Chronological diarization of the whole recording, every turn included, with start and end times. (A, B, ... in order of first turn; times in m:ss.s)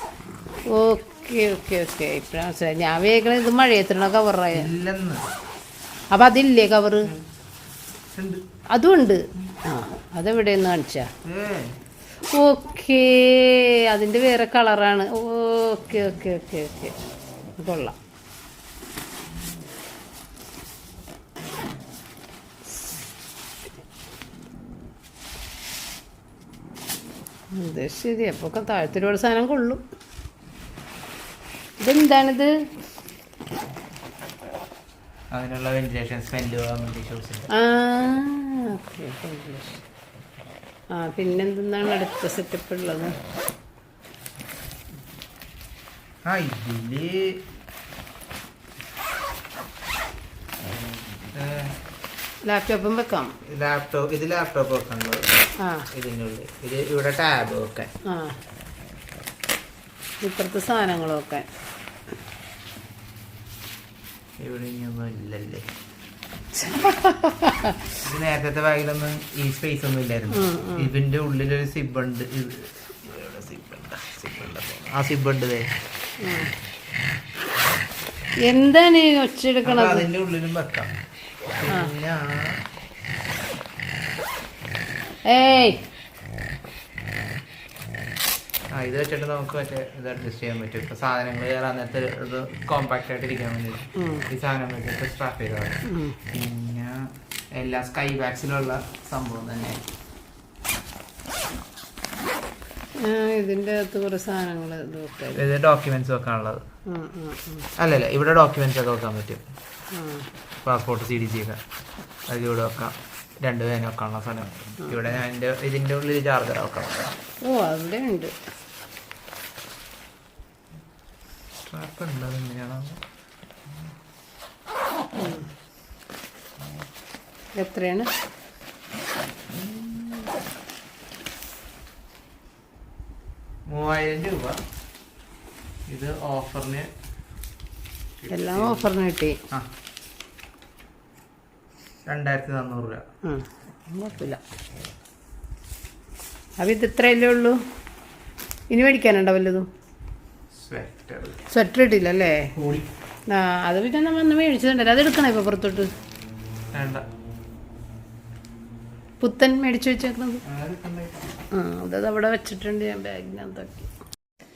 0:00.7-0:04.7 A
0:04.5-0:05.3 B
0:06.1-0:07.1 A
0:08.1-0:08.4 B
0:08.7-0:11.1 A
0:11.2-0:11.8 B
0:12.3-0:17.0 A
0:17.6-0:18.0 A
0:27.5-0:29.8 A
0:31.8-0:32.6 A
0:35.3-0:37.5 B
0:37.5-0:39.8 A
0:40.9-0:43.2 A
0:46.2-0:47.4 B
0:51.2-0:51.8 B
0:52.4-0:53.3 A
0:53.4-0:57.9 B
0:55.6-0:55.9 A
0:58.1-0:58.4 A
1:00.2-1:01.5 A
1:04.4-1:05.7 B
1:06.6-1:07.8 A
1:08.0-1:15.7 B
1:10.3-1:10.9 A
1:16.2-1:16.5 A
1:18.5-1:20.1 A
1:19.6-1:20.9 B
1:21.6-1:22.6 B
1:21.7-1:21.9 A
1:25.3-1:25.8 A
1:28.7-1:39.8 B
1:34.0-1:34.3 A
1:35.9-1:36.2 A
1:43.0-1:45.4 A
1:45.3-1:46.6 B
1:46.9-1:47.7 A
1:47.8-1:49.4 B
1:49.9-1:50.3 A
1:50.6-1:51.6 B
1:52.3-1:57.2 B
1:57.4-1:58.4 A
2:01.6-2:03.0 B
2:05.2-2:05.5 A
2:07.6-2:08.1 A
2:09.6-2:09.9 B
2:13.7-2:14.6 B
2:15.9-2:16.9 B
2:18.2-2:18.9 B
2:18.3-2:19.4 A
2:22.1-2:23.0 B
2:23.2-2:24.4 A
2:26.6-2:27.6 A
2:28.7-2:29.7 A
2:30.5-2:31.4 B
2:31.5-2:32.5 A
2:32.5-2:32.9 B
2:33.3-2:35.9 A
2:36.7-2:37.0 B
2:39.2-2:40.4 A
2:40.4-2:41.3 B
2:41.5-2:43.9 A